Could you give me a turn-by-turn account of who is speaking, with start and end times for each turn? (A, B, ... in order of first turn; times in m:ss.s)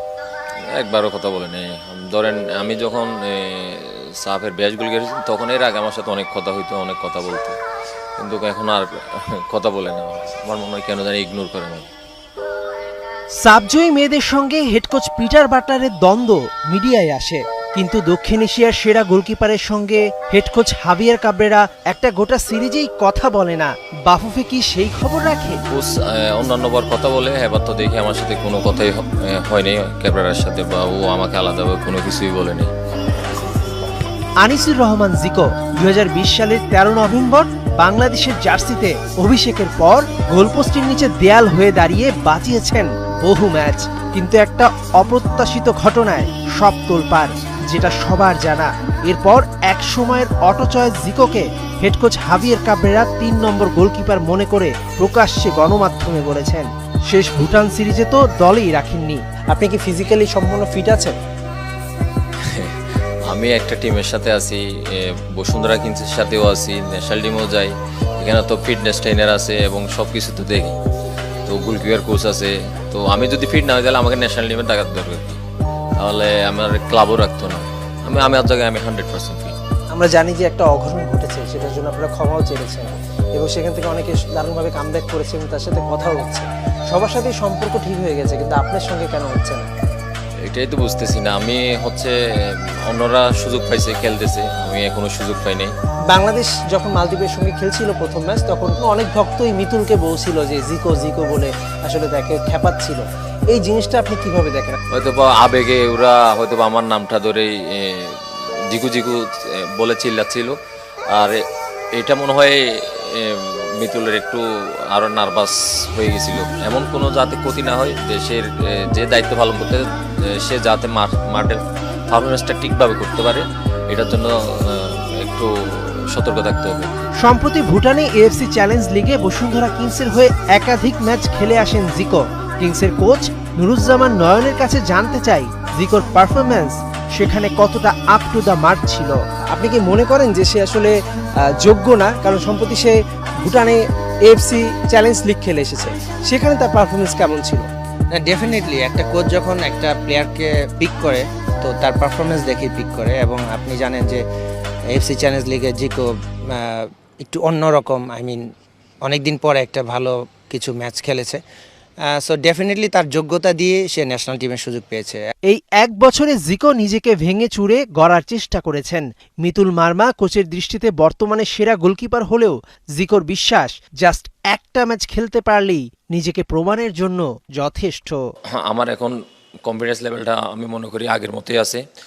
0:00.8-0:07.6 A
0:08.2-0:08.8 A
0:09.5-0:11.9 A
0:13.4-0:25.6 B
0:25.7-0:32.7 A
0:34.4-1:01.2 B
1:02.4-1:02.7 A
1:03.3-1:10.8 A
1:11.4-1:15.4 A
1:16.0-1:19.5 A
1:19.9-1:29.7 B
1:30.4-1:32.1 A
1:32.8-1:35.7 A
1:36.1-1:44.8 B
1:44.9-1:49.2 A
1:49.8-1:50.5 A
1:51.1-1:51.4 A
1:52.0-2:07.1 A
2:07.2-2:20.9 B
2:21.6-2:27.7 B
2:28.1-2:34.2 C
2:34.9-2:38.4 C
2:39.1-2:41.4 C
2:42.2-2:45.2 C
2:45.5-2:58.2 B
2:58.6-2:59.1 A
2:59.6-3:01.8 A